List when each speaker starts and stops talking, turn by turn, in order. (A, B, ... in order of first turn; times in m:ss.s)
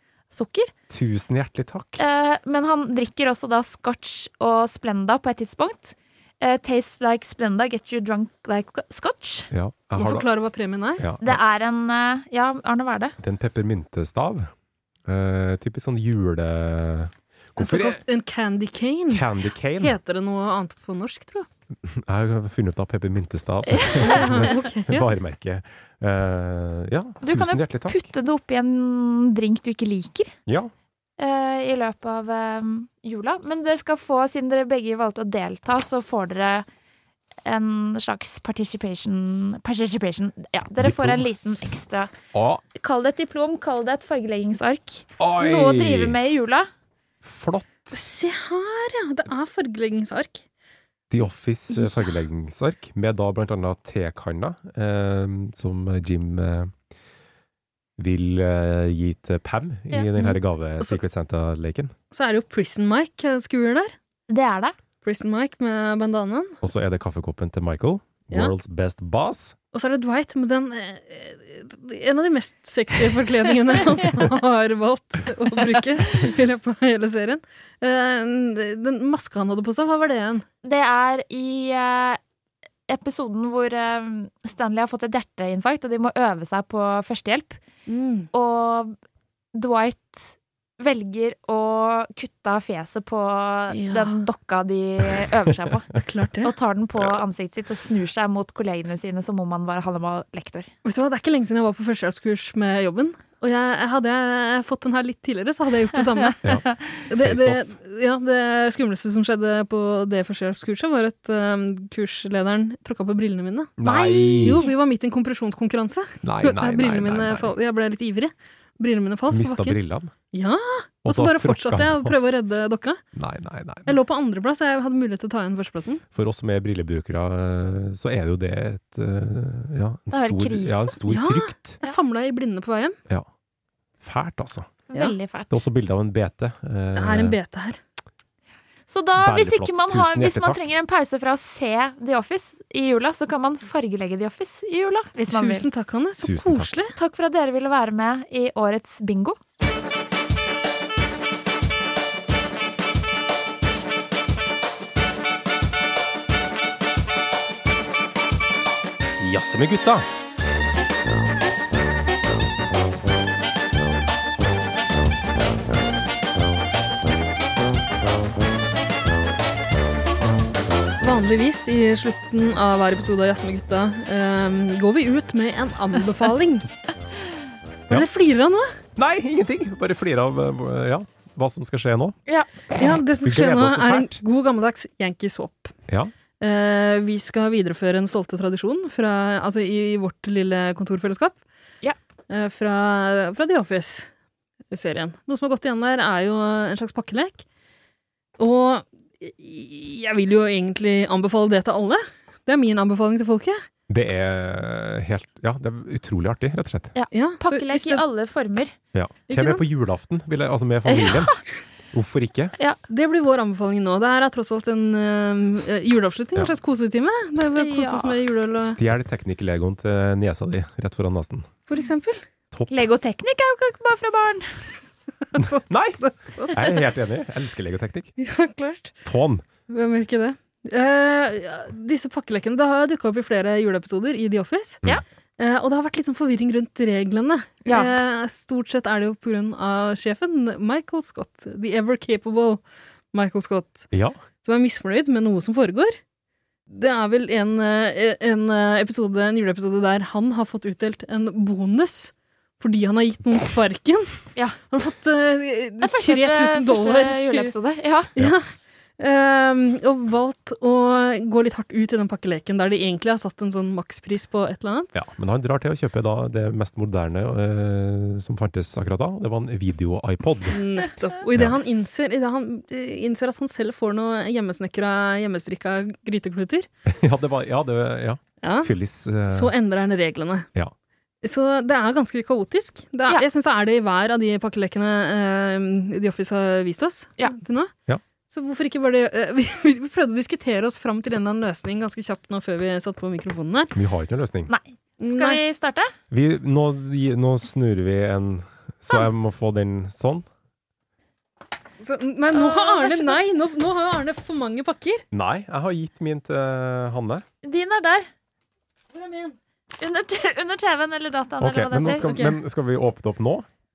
0:00.3-0:00.7 A
0:00.9-0:02.0 B
0:02.0-0:09.5 A
0:09.5-0:10.3 B
0:10.0-0:11.0 C
0:11.0-0:11.4 B
0:11.2-0:13.2 A
0:13.2-0:14.5 B
0:15.1-0:18.0 B
0:17.6-0:21.5 C
0:19.1-0:20.0 B
0:21.8-0:28.0 B
0:23.8-0:24.3 A
0:24.0-0:25.1 C
0:27.2-0:30.4 A
0:30.5-0:30.7 B
0:31.2-0:36.7 A
0:37.4-0:42.1 A
0:40.8-0:41.2 B
0:42.3-0:42.6 B
0:42.8-0:46.7 A
0:45.2-0:46.2 B
0:47.2-0:48.0 B
0:47.9-0:50.4 C
0:51.1-0:56.7 B
0:58.0-1:01.9 B
1:00.2-1:01.0 C
1:02.1-1:03.9 C
1:04.3-1:04.8 A
1:05.0-1:06.6 C
1:06.6-1:09.6 B
1:09.7-1:20.5 C
1:20.6-1:22.2 A
1:22.9-1:27.6 A
1:27.9-1:28.3 C
1:28.3-1:29.0 A
1:29.5-1:35.9 A
1:33.7-1:34.2 C
1:36.0-1:36.5 C
1:36.4-1:40.7 A
1:40.8-1:46.4 C
1:46.4-1:47.7 B
1:47.1-1:53.8 C
1:53.8-1:54.6 B
1:53.8-1:54.7 A
1:54.4-1:59.8 C
1:56.2-1:57.6 B
1:59.3-2:00.1 B
2:00.3-2:03.0 C
2:01.1-2:02.2 B
2:03.1-2:04.0 B
2:03.9-2:06.0 C
2:06.1-2:11.8 B
2:10.1-2:11.0 A
2:11.1-2:13.0 C
2:14.0-2:14.7 B
2:14.9-2:15.6 A
2:15.5-2:17.4 B
2:17.0-2:17.8 C
2:18.9-2:25.7 A
2:19.2-2:20.6 B
2:25.3-2:27.0 C
2:26.2-2:26.7 B
2:27.0-2:29.4 A
2:39.2-2:40.1 B
2:51.0-2:56.7 C
2:57.9-2:58.8 C
2:59.0-3:02.2 B
3:02.7-3:04.2 B
3:02.8-3:05.8 C
3:06.4-3:11.4 C
3:12.3-3:14.1 C
3:14.7-3:17.4 C
3:18.4-3:23.6 C
3:23.9-3:26.9 B
3:27.0-3:28.8 A
3:27.1-3:28.0 C
3:28.9-3:31.3 B
3:29.3-3:29.6 C
3:30.9-3:31.3 A
3:31.9-3:32.5 B
3:32.9-3:38.8 C
3:37.4-3:38.2 A
3:38.6-3:41.5 B
3:41.7-3:42.2 C
3:42.7-3:44.7 A
3:45.3-3:46.8 C
3:45.4-3:46.0 B
3:46.5-3:48.1 B
3:48.2-3:48.9 C
3:49.0-3:49.4 B
3:49.7-3:54.8 C
3:55.4-4:02.6 C
3:57.7-3:58.0 A
4:03.1-4:03.9 C
4:03.9-4:04.2 B
4:04.4-4:06.0 C
4:06.7-4:17.5 C
4:15.8-4:18.1 A
4:18.2-4:25.0 C
4:25.0-4:30.6 B
4:30.5-4:36.7 C
4:36.9-4:39.5 B
4:38.4-4:38.7 C
4:39.3-4:40.5 C
4:41.2-4:47.7 C
4:48.3-4:53.7 C
4:53.8-4:54.5 B
4:54.5-4:55.9 A
4:55.0-4:55.4 C
4:56.1-5:00.3 B
5:01.8-5:05.0 C
5:02.3-5:03.2 A
5:05.1-5:07.2 B
5:07.4-5:08.1 A
5:08.9-5:09.4 C
5:09.8-5:12.1 A
5:11.4-5:13.5 B
5:12.0-5:12.4 C